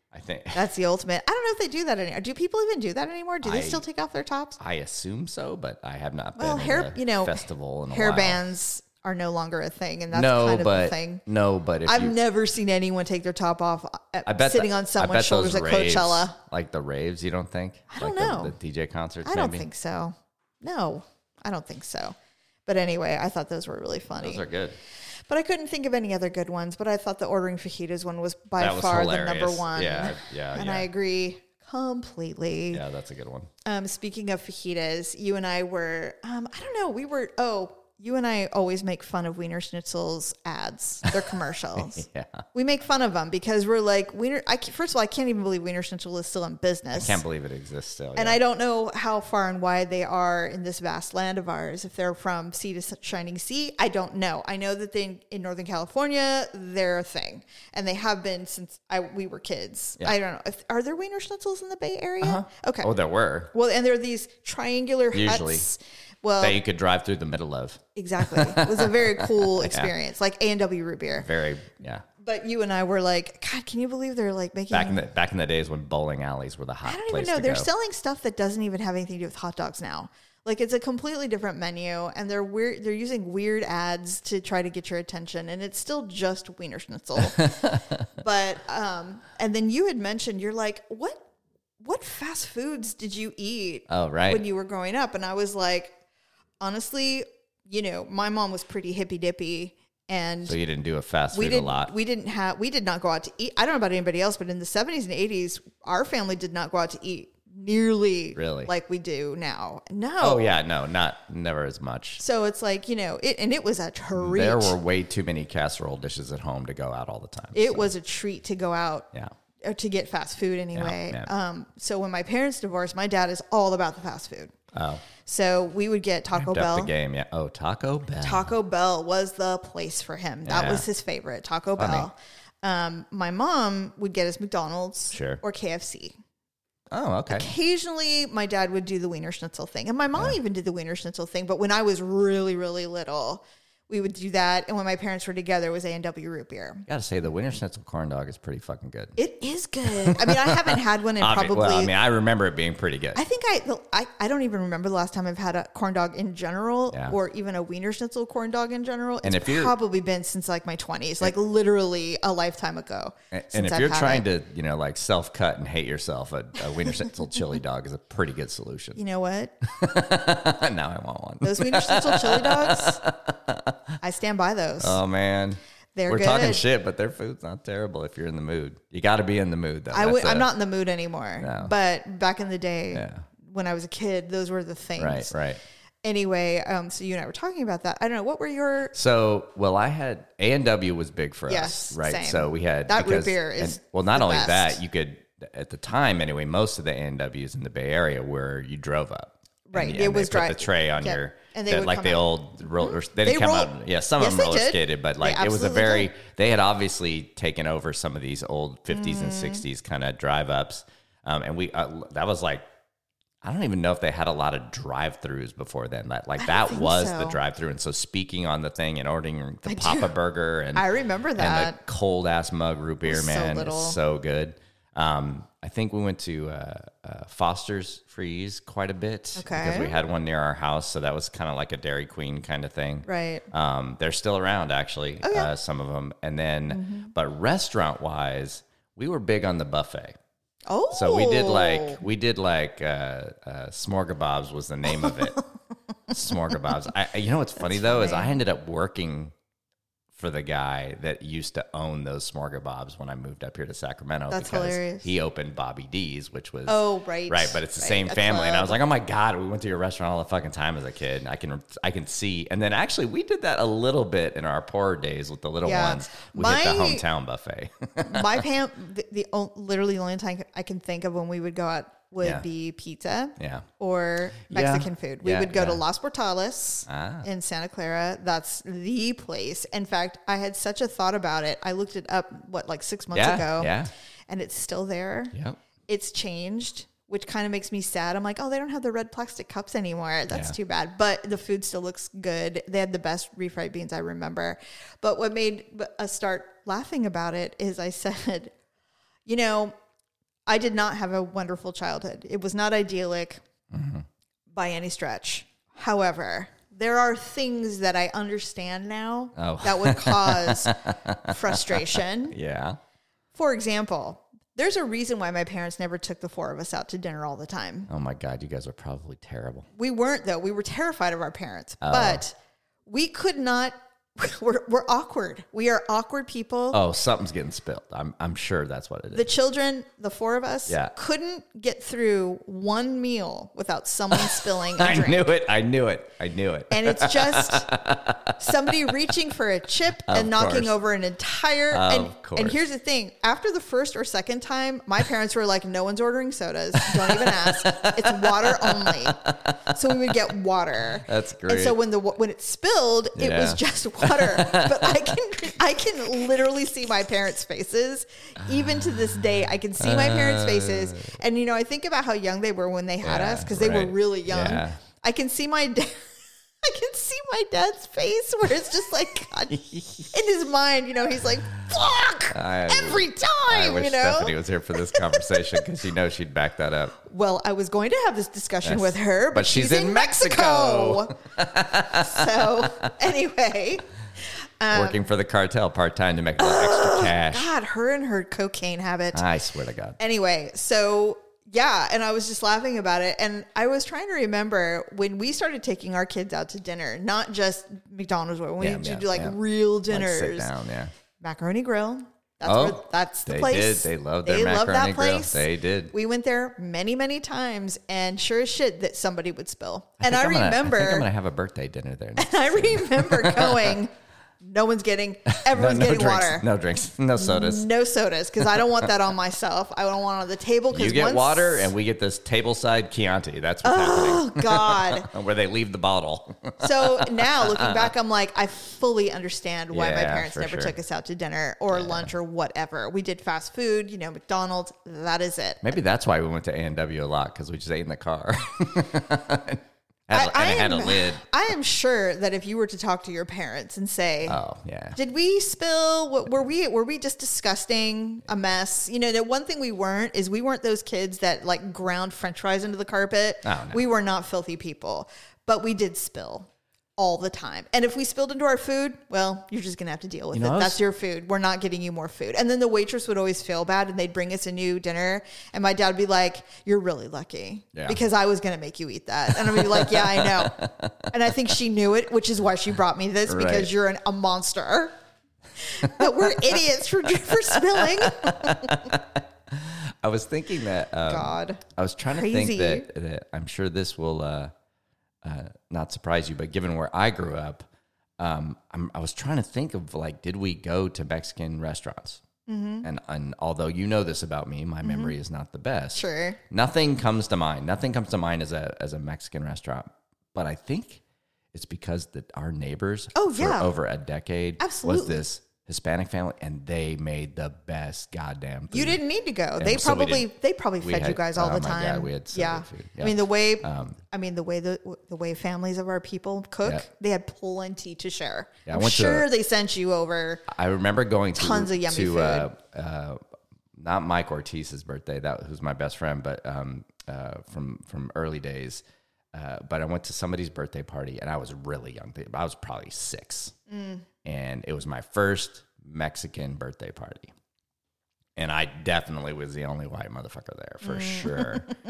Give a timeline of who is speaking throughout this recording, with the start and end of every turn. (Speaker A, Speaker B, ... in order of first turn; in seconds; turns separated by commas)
Speaker A: 0.1-0.6, Speaker B: 0.5-4.6, Speaker A: 3.4-3.8, Speaker A: 4.6-8.4, Speaker B: 6.4-11.2, Speaker A: 10.1-12.1, Speaker B: 11.8-16.4, Speaker A: 14.2-19.6, Speaker B: 17.9-18.5, Speaker B: 19.2-22.1, Speaker B: 22.6-24.4, Speaker A: 24.2-24.8, Speaker B: 25.3-32.8, Speaker A: 28.6-30.9, Speaker A: 32.7-33.5, Speaker B: 33.6-47.2, Speaker A: 41.8-42.4, Speaker A: 46.9-48.4, Speaker B: 48.1-62.9, Speaker A: 62.2-63.5, Speaker B: 63.5-66.6, Speaker A: 65.1-65.6, Speaker A: 66.4-69.9, Speaker B: 67.9-71.3, Speaker A: 71.1-72.0, Speaker B: 72.2-75.0, Speaker A: 74.7-77.7, Speaker B: 76.8-91.2, Speaker A: 87.2-88.0, Speaker B: 91.8-96.0, Speaker A: 93.9-94.4, Speaker B: 96.6-100.6, Speaker A: 100.5-101.9, Speaker B: 101.3-110.5, Speaker A: 108.3-108.7, Speaker A: 110.2-112.2, Speaker B: 112.2-114.7, Speaker A: 114.2-117.9, Speaker B: 117.5-119.1, Speaker B: 119.6-124.5, Speaker A: 120.7-121.3, Speaker A: 124.7-125.0, Speaker B: 125.2-126.9, Speaker A: 126.3-128.5, Speaker B: 128.2-136.2, Speaker A: 130.4-130.8, Speaker A: 131.8-132.1, Speaker A: 135.1-135.4, Speaker A: 136.9-137.5, Speaker B: 137.3-146.8, Speaker A: 146.9-149.2, Speaker B: 149.2-151.9, Speaker A: 149.8-153.2, Speaker B: 153.1-164.2, Speaker A: 156.9-157.2, Speaker A: 159.2-159.7, Speaker A: 163.3-169.0, Speaker B: 168.9-169.7, Speaker A: 169.7-173.9, Speaker B: 171.4-173.0, Speaker B: 174.0-175.0, Speaker A: 174.8-180.5, Speaker B: 175.9-176.6, Speaker B: 179.9-185.3, Speaker A: 181.4-181.7, Speaker A: 182.9-183.2, Speaker A: 185.0-185.6, Speaker B: 186.0-188.9, Speaker A: 188.9-212.6, Speaker B: 191.5-194.8, Speaker B: 199.7-206.1, Speaker B: 208.9-209.6, Speaker A: 213.4-220.8, Speaker B: 216.4-217.4, Speaker B: 219.7-220.1, Speaker B: 220.7-221.8, Speaker A: 221.4-240.2, Speaker B: 223.0-224.0, Speaker B: 229.3-229.9, Speaker B: 233.1-233.5, Speaker B: 235.2-235.5, Speaker B: 236.7-237.1, Speaker B: 240.7-242.0, Speaker A: 240.9-245.4, Speaker B: 244.9-245.4, Speaker A: 246.1-249.3, Speaker B: 247.6-248.3, Speaker A: 250.1-268.4, Speaker B: 254.3-255.1, Speaker B: 256.7-258.8, Speaker B: 265.6-267.0, Speaker B: 268.0-283.8, Speaker A: 273.4-273.7, Speaker A: 274.5-275.8, Speaker A: 276.9-277.3, Speaker A: 283.1-283.9, Speaker B: 284.3-285.4, Speaker A: 285.3-285.6, Speaker B: 285.9-298.5, Speaker A: 290.3-290.5, Speaker B: 299.2-299.7, Speaker B: 300.5-303.4, Speaker A: 303.7-304.0, Speaker B: 304.5-312.4, Speaker A: 309.4-312.8, Speaker B: 313.3-317.9, Speaker A: 317.9-319.7, Speaker B: 319.8-322.3, Speaker A: 321.8-322.2, Speaker B: 322.9-326.8, Speaker A: 326.7-329.3, Speaker B: 329.1-335.3, Speaker A: 330.7-330.9, Speaker A: 334.1-339.1, Speaker B: 336.7-337.7, Speaker B: 338.4-366.1, Speaker A: 340.0-340.7, Speaker A: 341.7-342.6, Speaker A: 346.8-350.2, Speaker A: 351.0-351.8, Speaker A: 353.1-355.2, Speaker A: 359.8-361.1, Speaker A: 363.0-364.8, Speaker B: 366.6-375.6, Speaker A: 369.5-370.1, Speaker A: 372.3-377.0, Speaker B: 377.0-381.2, Speaker A: 378.6-382.9, Speaker B: 381.8-383.9, Speaker B: 384.6-385.0, Speaker A: 384.7-387.5, Speaker B: 386.4-389.2, Speaker A: 389.1-390.0, Speaker B: 390.0-400.5, Speaker A: 398.6-399.4, Speaker A: 399.9-400.9, Speaker B: 401.2-411.1, Speaker A: 402.4-405.9, Speaker A: 410.0-413.8, Speaker B: 412.2-416.4, Speaker A: 415.3-417.7, Speaker B: 417.1-421.7, Speaker A: 420.7-427.9, Speaker B: 423.6-425.1, Speaker B: 426.6-435.7, Speaker A: 429.7-430.7, Speaker A: 431.7-432.1, Speaker A: 435.6-441.2, Speaker B: 440.1-444.4, Speaker A: 444.3-445.0, Speaker B: 444.9-470.6, Speaker A: 453.4-453.8, Speaker A: 460.3-460.8, Speaker A: 469.3-471.1, Speaker B: 471.1-474.9, Speaker A: 473.2-473.7, Speaker B: 475.6-478.8, Speaker A: 475.8-476.3, Speaker A: 477.2-484.5, Speaker B: 481.1-482.9, Speaker A: 485.2-487.6, Speaker A: 488.2-492.2, Speaker B: 492.5-492.9, Speaker A: 492.8-501.0, Speaker B: 494.8-495.1, Speaker B: 495.9-496.4, Speaker A: 501.5-509.0, Speaker B: 503.1-503.7, Speaker B: 504.6-505.2, Speaker B: 508.7-520.4, Speaker A: 509.6-514.0, Speaker A: 518.6-519.3, Speaker A: 520.5-523.2, Speaker B: 521.4-522.5, Speaker A: 523.8-533.5, Speaker B: 533.7-534.0, Speaker A: 534.2-537.3, Speaker A: 538.4-541.7, Speaker B: 540.8-541.7